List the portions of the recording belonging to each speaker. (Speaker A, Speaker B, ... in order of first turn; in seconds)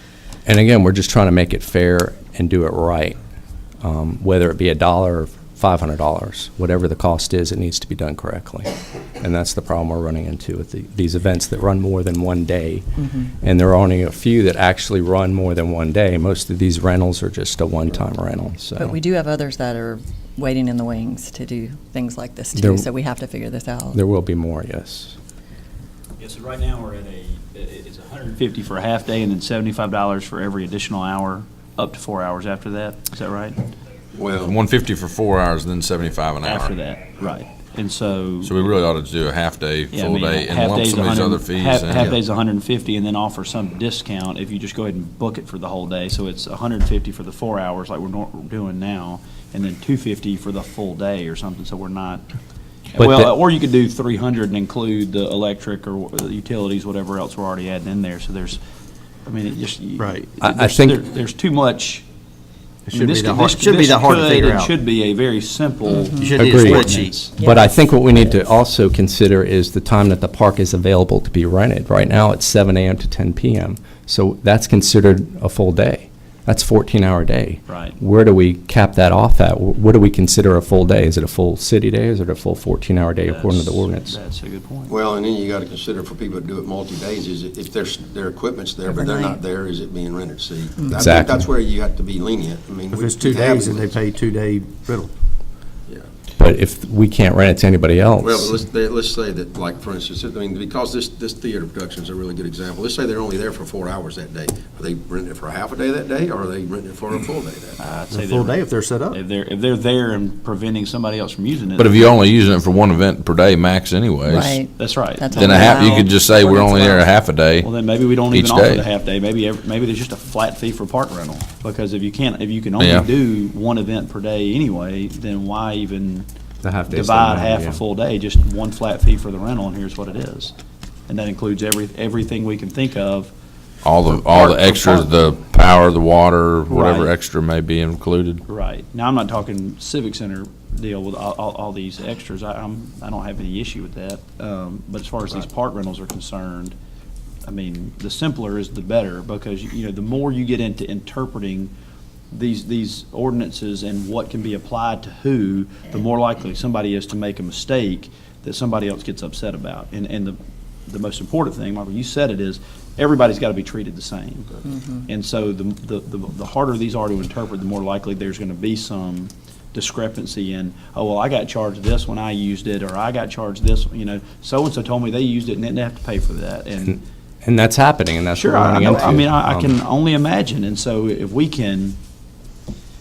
Speaker A: 0.5-3.1, 3.8-12.9, 13.4-19.0, 22.6-22.9, 23.9-25.1, 53.0-53.3, 60.4-61.0, 66.4-84.2, 90.9-91.5, 96.4-98.5, 126.6-127.8, 176.9-179.7
Speaker B: 13.0-13.3, 18.8-24.0, 65.9-66.3, 67.4-67.7, 88.9-89.4, 114.2-116.9, 164.7-165.0
Speaker C: 26.2-33.6, 36.4-38.5, 39.9-52.3, 52.9-58.6, 59.2-62.0, 62.9-67.3, 77.7-78.0, 83.2-84.9, 107.8-112.1, 114.8-116.1, 116.7-117.1, 117.6-126.3, 126.9-130.5, 131.1-133.3, 134.2-135.1, 136.7-137.1, 138.5-146.7, 147.4-151.7, 152.3-177.0, 178.3-182.0
Speaker D: 34.1-34.6, 84.9-94.0, 98.2-107.8
Speaker E: 34.4-36.7, 38.4-42.1, 111.8-114.6, 115.3-117.7, 118.3-118.9, 122.8-123.1, 133.8-138.4
Speaker F: 60.0-60.3, 62.9-64.7, 66.2-67.2, 92.9-95.1, 108.1-109.2